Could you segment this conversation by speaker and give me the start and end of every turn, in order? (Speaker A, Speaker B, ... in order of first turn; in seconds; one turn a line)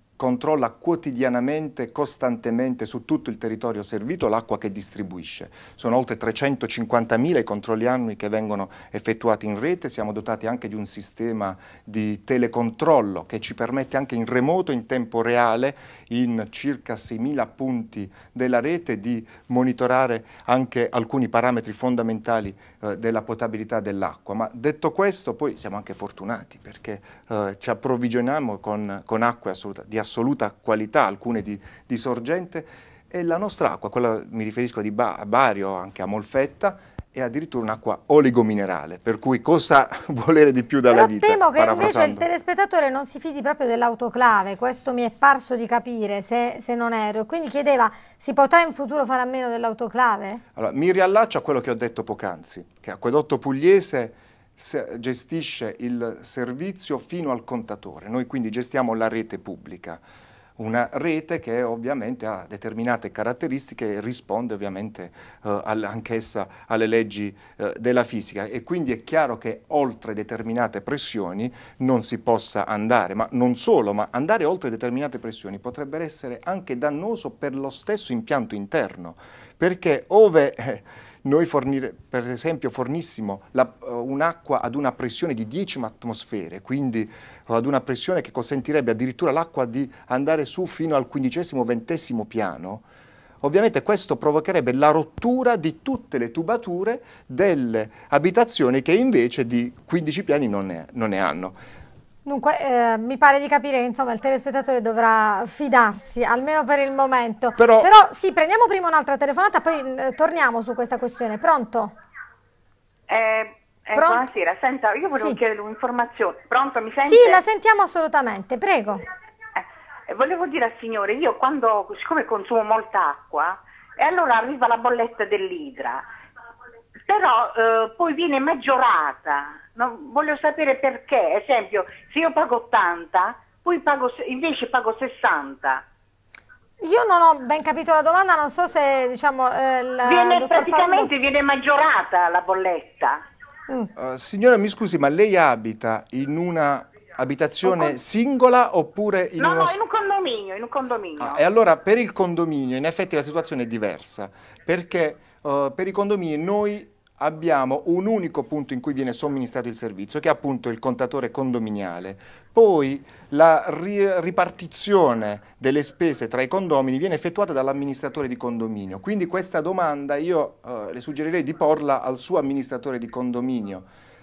Speaker A: 0.2-42.2
Speaker B: 40.9-50.4
Speaker A: 50.6-60.0
Speaker A: 60.6-92.8
Speaker A: 93.4-101.6
Speaker B: 102.2-111.9
Speaker A: 107.6-107.9
Speaker C: 113.1-117.4
Speaker B: 114.0-114.2
Speaker B: 115.1-115.4
Speaker B: 117.0-119.0
Speaker C: 119.6-126.1
Speaker C: 127.1-135.8
Speaker B: 136.8-141.1
Speaker C: 140.0-143.2
Speaker A: 144.0-149.8
Speaker C: 149.4-151.4
Speaker A: 151.2-173.9